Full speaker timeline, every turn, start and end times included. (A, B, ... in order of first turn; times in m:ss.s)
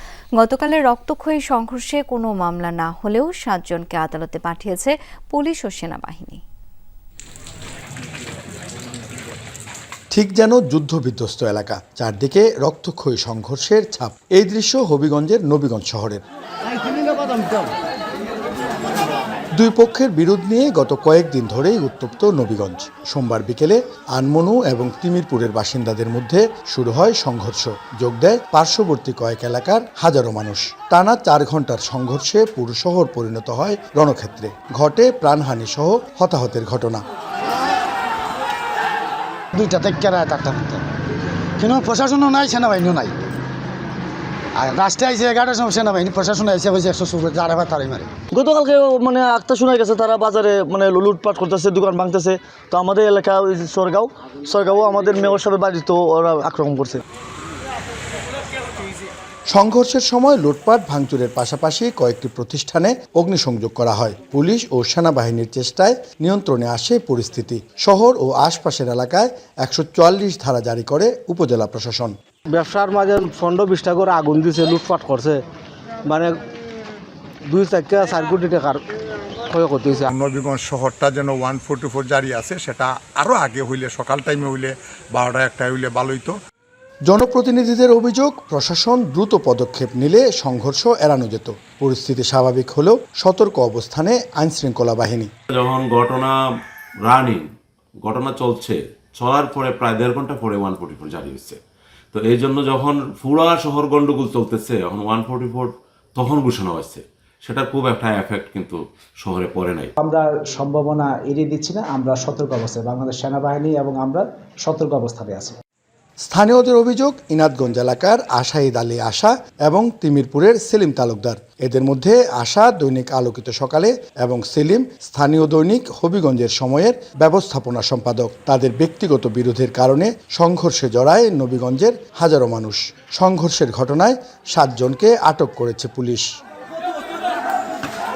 0:00.4-0:06.4 A
0:10.1-0:16.2 B
0:19.6-0:37.0 B
0:39.5-0:40.8 C
0:41.6-0:43.2 C
0:44.6-0:48.3 C
0:48.3-0:57.0 D
0:59.5-1:12.1 B
1:12.5-1:15.4 E
1:16.1-1:16.4 E
1:17.5-1:18.8 E
1:19.5-1:20.1 E
1:20.1-1:26.4 F
1:27.1-1:35.3 B
1:35.5-1:36.3 G
1:37.0-1:37.4 G
1:38.0-1:41.6 G
1:42.1-1:49.9 G
1:50.0-1:55.6 H
1:56.3-2:16.3 B